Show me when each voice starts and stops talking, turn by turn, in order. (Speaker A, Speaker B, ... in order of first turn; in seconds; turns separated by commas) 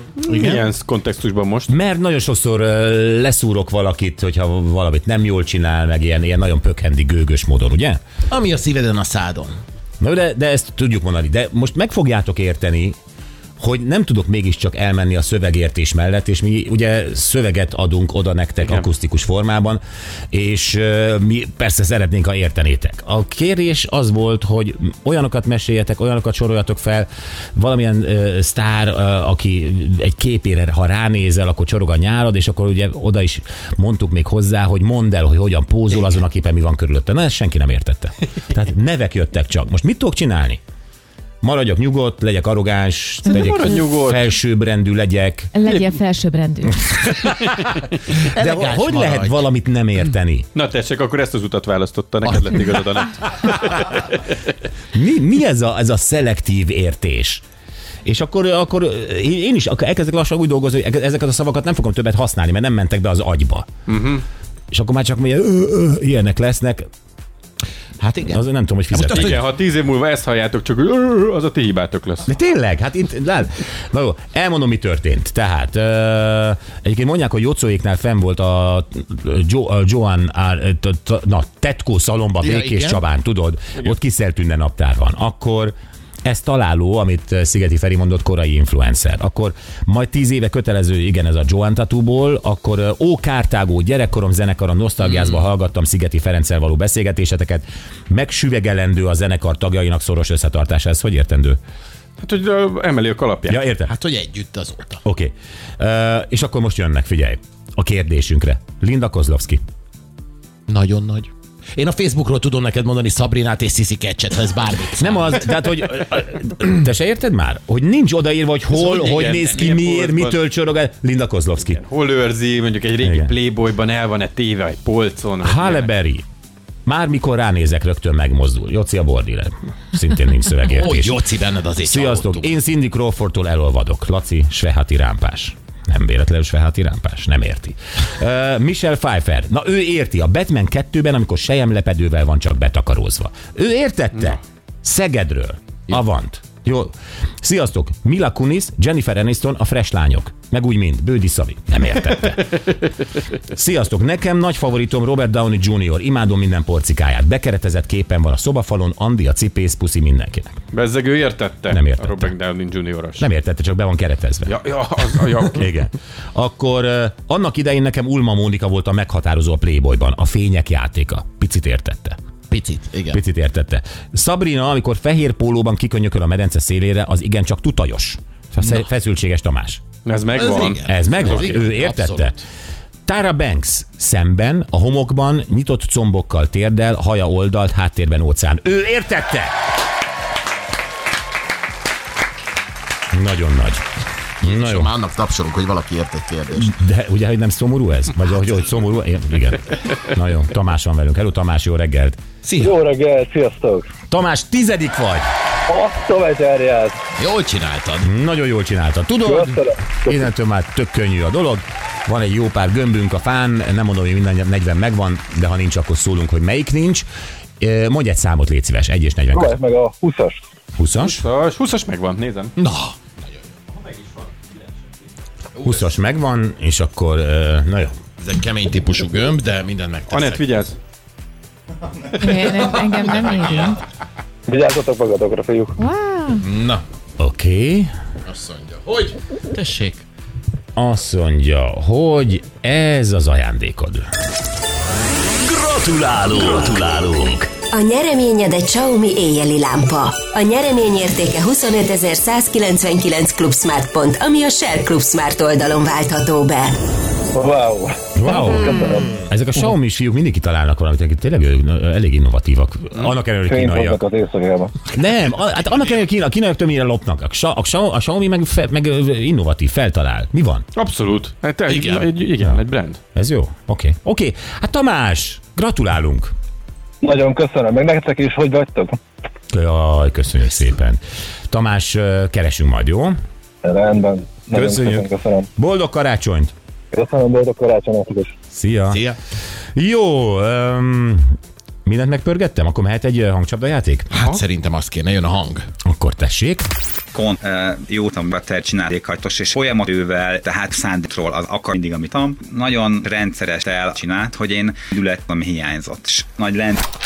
Speaker A: 0.2-1.7, Speaker B: 0.2-0.7, Speaker C: 1.7-8.0, Speaker B: 8.3-9.6, Speaker C: 10.0-13.0, Speaker C: 13.6-40.6, Speaker A: 18.6-18.9, Speaker C: 41.4-45.5, Speaker A: 43.3-44.4, Speaker D: 45.5-46.9, Speaker A: 45.7-46.0, Speaker A: 47.2-47.8, Speaker B: 48.4-49.5, Speaker C: 48.4-50.5, Speaker A: 50.6-54.2, Speaker B: 52.2-52.7, Speaker C: 54.9-57.4, Speaker C: 58.0-63.7, Speaker A: 63.9-64.2, Speaker C: 64.7-66.9, Speaker B: 68.0-69.4, Speaker C: 68.3-69.3, Speaker A: 69.1-72.3, Speaker C: 72.3-101.6, Speaker B: 82.4-83.0, Speaker A: 102.2-103.7, Speaker C: 103.5-103.9, Speaker B: 103.9-105.0, Speaker C: 105.0-109.6, Speaker B: 110.7-115.5, Speaker C: 115.0-121.8, Speaker A: 118.7-120.4, Speaker B: 119.3-119.7, Speaker A: 121.8-125.9, Speaker C: 123.0-123.3, Speaker C: 125.4-126.2, Speaker C: 126.9-131.1, Speaker B: 130.7-132.5, Speaker C: 131.8-152.6, Speaker C: 153.5-160.6, Speaker A: 160.7-163.3, Speaker C: 161.7-162.3, Speaker C: 163.2-164.5, Speaker A: 164.5-165.7, Speaker C: 165.5-172.2, Speaker B: 172.5-173.2, Speaker C: 173.1-179.8, Speaker B: 178.6-178.9, Speaker A: 180.1-181.6, Speaker B: 180.3-182.4, Speaker C: 180.9-182.4, Speaker C: 183.1-189.5, Speaker C: 193.1-193.8, Speaker B: 194.4-196.8, Speaker C: 194.5-194.9, Speaker C: 196.6-202.2, Speaker B: 202.4-202.8, Speaker E: 202.6-203.9, Speaker C: 204.1-205.3, Speaker E: 205.7-207.0, Speaker B: 207.2-208.1, Speaker C: 208.0-209.6, Speaker E: 209.2-210.3, Speaker C: 210.1-217.1, Speaker C: 217.6-219.6, Speaker E: 219.3-220.4, Speaker C: 220.8-221.2, Speaker A: 220.9-222.5, Speaker B: 222.6-223.4, Speaker A: 223.9-224.3, Speaker C: 225.6-228.0, Speaker B: 225.7-225.9, Speaker B: 228.2-230.6, Speaker A: 230.1-230.8, Speaker D: 232.2-233.8, Speaker E: 234.5-235.8, Speaker D: 235.8-236.5, Speaker B: 236.4-236.8, Speaker C: 237.2-237.9, Speaker B: 238.3-240.0, Speaker C: 240.8-244.1, Speaker F: 245.4-247.5, Speaker G: 247.7-256.8, Speaker E: 257.3-259.1, Speaker C: 258.1-264.0, Speaker E: 263.5-264.8, Speaker C: 264.9-270.7, Speaker A: 270.8-273.0, Speaker B: 271.7-272.1, Speaker C: 273.1-276.3, Speaker E: 277.0-279.0, Speaker C: 279.5-283.2, Speaker E: 283.6-285.5, Speaker C: 284.5-286.5, Speaker E: 286.9-288.4, Speaker C: 288.5-289.0, Speaker B: 288.9-289.2, Speaker C: 289.8-294.1, Speaker B: 294.1-295.7, Speaker C: 295.9-296.7, Speaker H: 297.1-306.8